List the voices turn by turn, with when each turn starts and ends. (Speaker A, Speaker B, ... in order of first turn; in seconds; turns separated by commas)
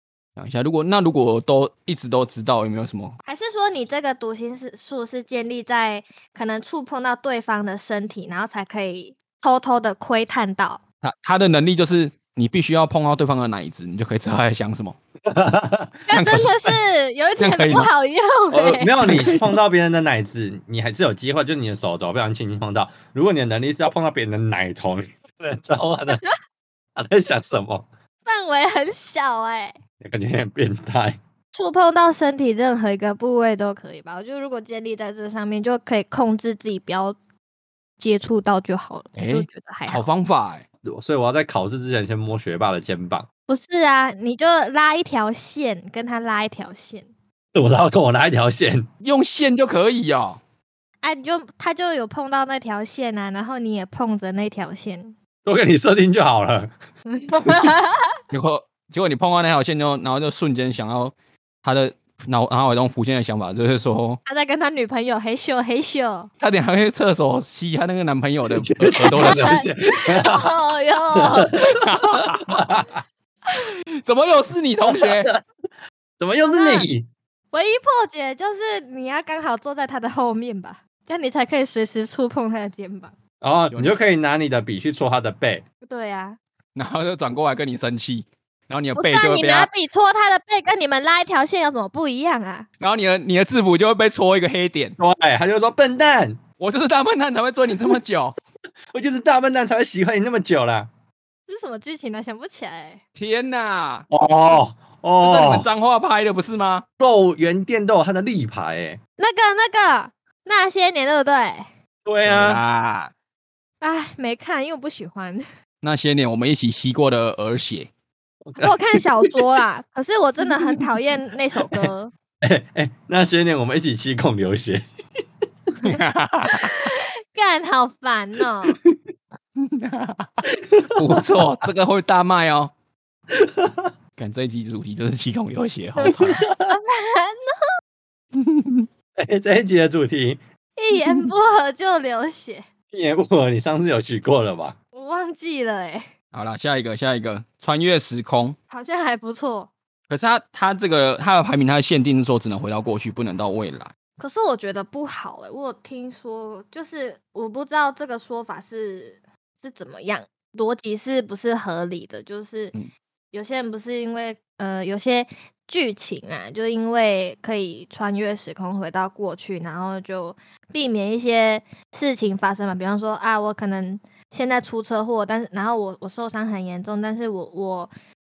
Speaker A: 0.4-3.2, Speaker B: 3.2-10.8, Speaker A: 11.0-15.0, Speaker C: 15.3-16.4, Speaker B: 16.1-19.1, Speaker A: 16.1-16.4, Speaker A: 17.4-17.9, Speaker C: 18.5-26.2, Speaker A: 19.0-19.6, Speaker C: 26.9-27.9, Speaker B: 28.3-29.8, Speaker C: 30.0-31.2, Speaker B: 31.5-37.2, Speaker B: 38.0-40.1, Speaker A: 39.2-40.6, Speaker C: 40.9-43.3, Speaker B: 43.5-47.1, Speaker C: 47.5-48.9, Speaker A: 49.0-50.4, Speaker B: 51.0-55.1, Speaker C: 55.5-56.7, Speaker B: 57.1-58.1, Speaker A: 58.3-64.2, Speaker B: 64.3-66.3, Speaker A: 66.4-69.6, Speaker C: 68.5-70.6, Speaker B: 69.0-71.6, Speaker C: 71.4-72.9, Speaker A: 71.6-72.7, Speaker A: 74.0-75.3, Speaker C: 74.8-75.4, Speaker C: 76.2-77.1, Speaker B: 76.5-76.9, Speaker B: 77.5-83.1, Speaker C: 83.4-85.6, Speaker B: 85.8-86.4, Speaker A: 86.7-89.7, Speaker B: 89.0-92.7, Speaker A: 92.8-95.0, Speaker C: 95.0-96.4, Speaker A: 96.6-98.3, Speaker C: 98.9-100.9, Speaker B: 101.5-103.0, Speaker A: 103.2-104.1, Speaker C: 104.1-105.7, Speaker A: 105.2-106.8, Speaker C: 107.0-109.0, Speaker B: 109.2-111.7, Speaker C: 112.0-112.6, Speaker A: 112.2-113.1, Speaker B: 113.8-115.4, Speaker A: 115.8-117.9, Speaker C: 118.5-119.3, Speaker B: 118.6-122.1, Speaker C: 122.4-124.8, Speaker A: 125.8-126.8, Speaker B: 126.5-128.8, Speaker A: 129.6-130.4, Speaker C: 130.6-131.4, Speaker A: 130.9-132.7, Speaker C: 133.3-133.9, Speaker A: 134.2-136.4, Speaker C: 136.1-136.8, Speaker B: 136.7-137.6, Speaker A: 138.3-138.9, Speaker C: 139.2-140.4, Speaker B: 140.8-142.7, Speaker C: 142.9-144.8, Speaker B: 144.9-146.1, Speaker A: 146.3-148.6, Speaker B: 148.7-149.7, Speaker A: 150.1-153.9, Speaker B: 154.2-162.7, Speaker B: 163.3-177.9